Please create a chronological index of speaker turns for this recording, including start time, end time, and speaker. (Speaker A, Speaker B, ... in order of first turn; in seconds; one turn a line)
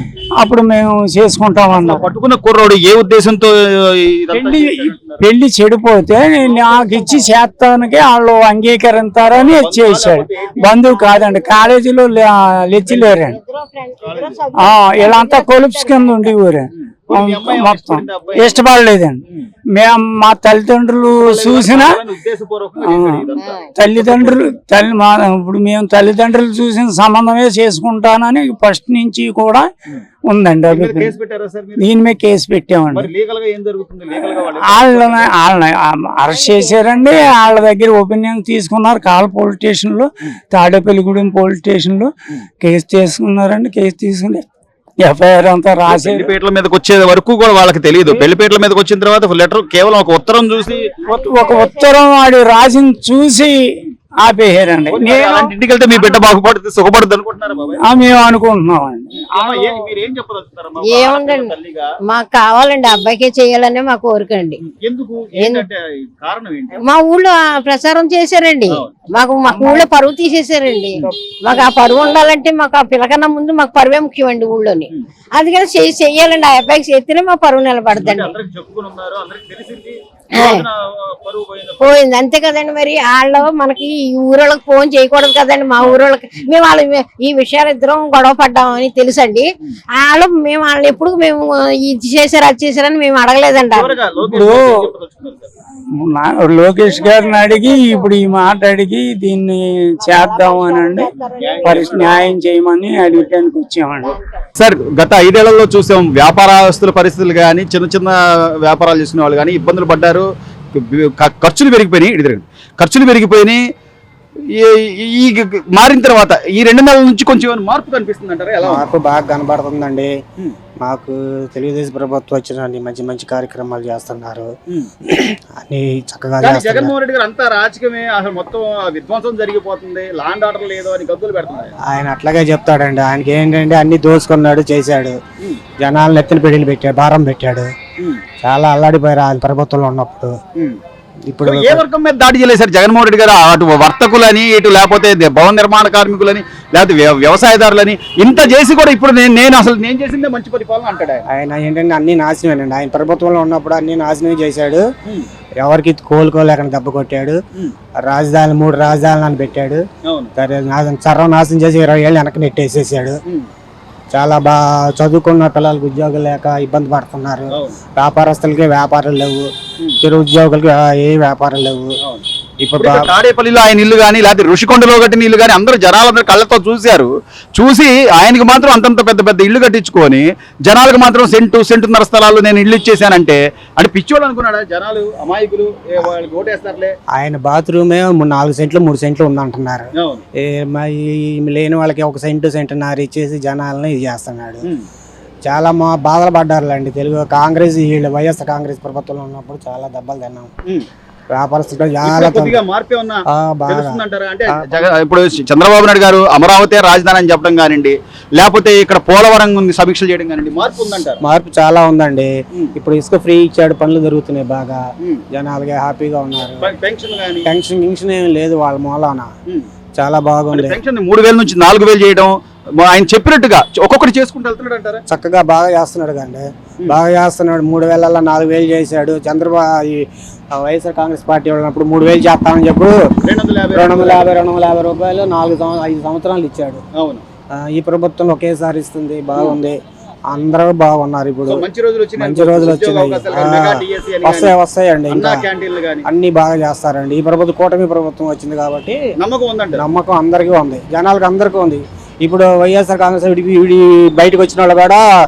Speaker A: 0.4-2.1
Speaker B: 1.7-5.2
Speaker A: 4.3-13.4
Speaker C: 6.5-7.3
Speaker B: 9.3-10.8
Speaker C: 10.7-11.6
Speaker B: 12.9-13.1
Speaker C: 13.1-16.3
Speaker B: 14.0-14.5
Speaker A: 14.6-19.2
Speaker B: 16.7-18.6
Speaker A: 19.7-22.0
Speaker B: 21.2-24.6
Speaker A: 22.8-29.7
Speaker C: 23.4-23.7
Speaker A: 30.3-31.1
Speaker B: 30.7-31.9
Speaker A: 31.8-33.1
Speaker B: 32.9-35.3
Speaker A: 34.2-42.1
Speaker C: 36.3-37.0
Speaker A: 42.6-44.5
Speaker A: 45.0-46.3
Speaker B: 45.9-51.2
Speaker C: 50.7-52.0
Speaker A: 51.1-55.5
Speaker B: 54.9-57.9
Speaker A: 57.8-59.8
Speaker B: 59.1-61.9
Speaker C: 60.8-61.5
Speaker C: 62.1-64.6
Speaker B: 64.6-66.8
Speaker C: 65.4-65.7
Speaker C: 66.8-78.3
Speaker B: 69.4-69.9
Speaker B: 70.9-71.8
Speaker B: 77.9-82.0
Speaker C: 80.3-80.6
Speaker C: 81.8-93.9
Speaker B: 85.8-86.5
Speaker B: 93.7-95.5
Speaker A: 94.2-94.8
Speaker A: 95.9-101.1
Speaker C: 96.8-98.1
Speaker C: 100.0-102.3
Speaker B: 101.3-102.2
Speaker A: 101.6-104.2
Speaker C: 104.0-104.4
Speaker B: 104.6-113.6
Speaker B: 114.5-118.9
Speaker D: 118.6-120.1
Speaker D: 120.8-124.5
Speaker D: 125.0-126.9
Speaker B: 126.4-131.7
Speaker D: 131.8-135.2
Speaker D: 135.8-137.7
Speaker D: 138.4-140.3
Speaker D: 141.3-141.8
Speaker B: 141.4-151.2
Speaker D: 151.3-154.8
Speaker D: 155.6-157.4
Speaker D: 158.0-159.8
Speaker B: 160.1-160.3
Speaker D: 160.4-163.2
Speaker D: 164.1-169.5
Speaker B: 167.5-167.8
Speaker D: 170.0-171.9
Speaker B: 172.0-186.9
Speaker D: 172.6-173.1
Speaker D: 187.1-194.7
Speaker B: 190.0-190.2
Speaker D: 195.4-200.5
Speaker D: 201.3-202.6
Speaker B: 202.0-211.2
Speaker D: 203.3-204.8
Speaker D: 211.2-214.8
Speaker D: 215.3-216.7
Speaker B: 216.6-217.5
Speaker D: 217.4-219.3
Speaker D: 220.0-220.8
Speaker B: 220.5-225.0
Speaker D: 225.1-232.9
Speaker B: 233.2-234.3
Speaker D: 233.7-236.8
Speaker B: 237.0-237.2
Speaker D: 237.6-239.8
Speaker D: 240.3-241.6
Speaker B: 241.5-244.6
Speaker D: 242.2-245.4
Speaker B: 245.1-246.1
Speaker D: 246.1-249.0
Speaker B: 249.2-249.8
Speaker D: 249.7-255.0